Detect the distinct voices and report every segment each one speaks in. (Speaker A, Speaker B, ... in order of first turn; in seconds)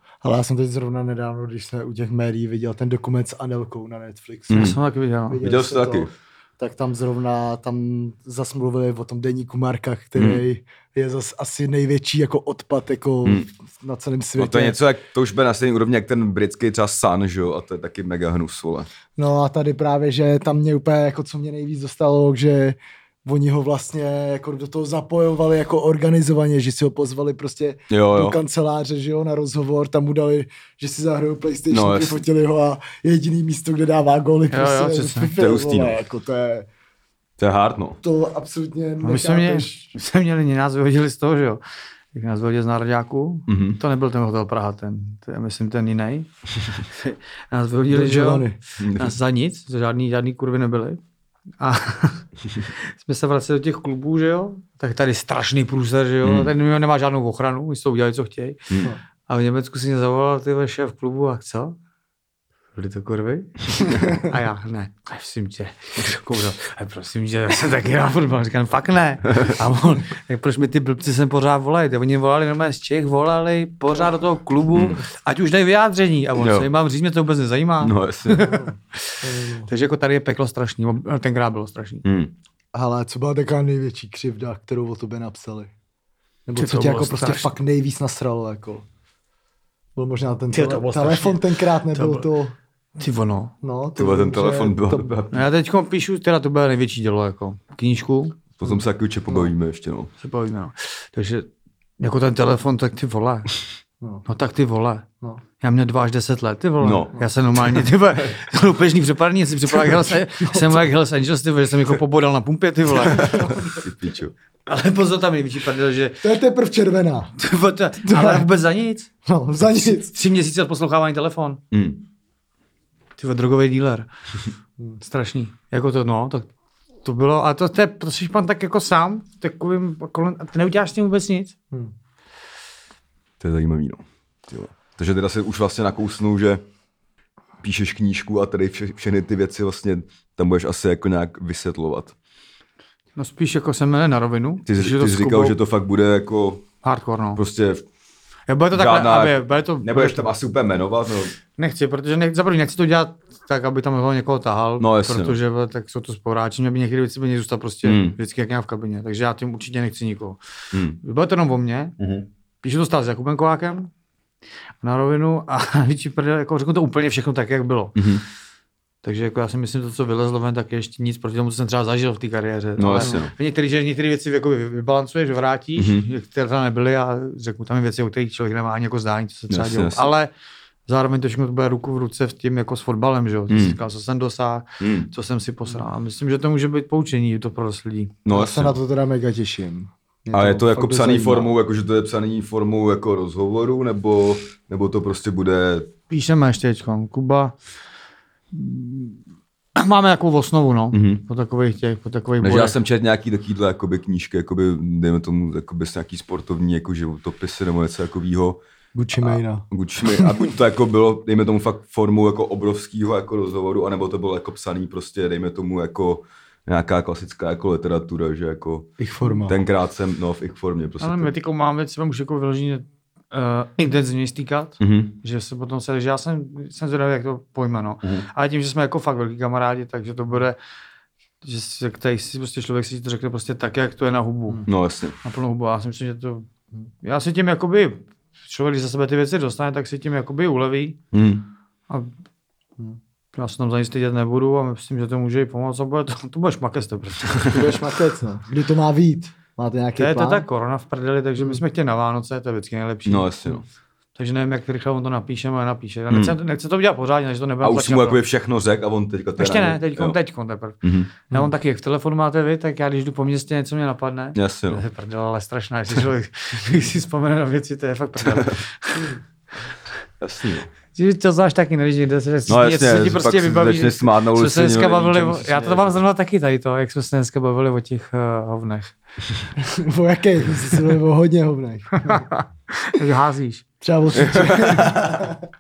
Speaker A: 0.2-4.8, 5.3-14.8, 19.1-36.7, 38.0-39.9, 47.9-48.5, 78.4-79.7, 82.7-85.7, 86.5-88.8, 90.0-92.5, 93.6-95.1, 98.6-99.5, 110.3-110.8, 113.2-113.8, 116.2-117.3, 118.0-118.5, 119.2-120.1, 188.3-191.5, 208.9-210.4, 219.0-219.6, 247.5-250.4, 279.6-282.2, 283.8-285.4
Speaker B: 4.5-4.8, 5.4-6.1, 10.2-10.4, 14.4-18.9, 27.9-28.4, 31.7-32.2, 35.4-36.0, 37.4-38.0, 43.5-43.8, 48.8-49.2, 56.2-56.5, 74.7-75.0, 76.4-76.7, 77.8-78.5, 82.0-82.3, 94.0-95.4, 98.6-100.1, 106.8-107.1, 113.1-114.3, 121.7-122.0, 133.4-136.6, 137.6-142.1, 144.6-146.7, 147.3-147.8, 148.7-151.4, 154.8-155.4, 157.8-158.2, 160.7-161.0, 162.0-162.3, 167.9-168.2, 172.8-173.3, 175.8-176.1, 179.5-180.1, 183.5-183.8, 184.8-185.1, 188.2-188.8, 190.3-195.9, 200.9-201.2, 202.4-208.6, 209.2-221.3, 224.8-225.2, 234.7-235.2, 241.1-241.4, 253.1-253.6, 256.1-256.4, 257.6-260.2, 260.8-261.1, 264.3-264.8, 268.2-268.6, 270.2-270.7, 272.5-275.9, 284.1-285.1
Speaker C: 4.5-5.4, 34.5-35.3, 39.0-41.6, 42.1-51.0, 51.6-52.2, 52.9-58.7, 59.3-61.8, 62.7-79.0, 79.7-82.0, 86.5-87.5, 90.5-92.3, 93.0-93.5, 95.3-98.4, 100.2-101.5, 102.0-103.5, 104.3-105.1, 105.6-113.5, 114.7-116.2, 117.4-119.1, 119.6-121.6, 123.2-124.1, 125.0-126.5, 127.0-131.6, 143.2-145.6, 146.8-147.4, 148.5-150.2, 151.6-160.4, 161.0-161.9, 162.6-163.9, 164.8-168.1, 169.0-180.3, 180.9-188.2, 196.1-197.5, 198.5-199.2, 199.8-202.8, 221.0-230.6, 231.4-234.6, 235.2-236.5, 237.0-241.0, 243.3-247.8, 250.0-253.3, 254.2-258.2, 259.4-269.1, 270.9-278.9, 282.0-283.6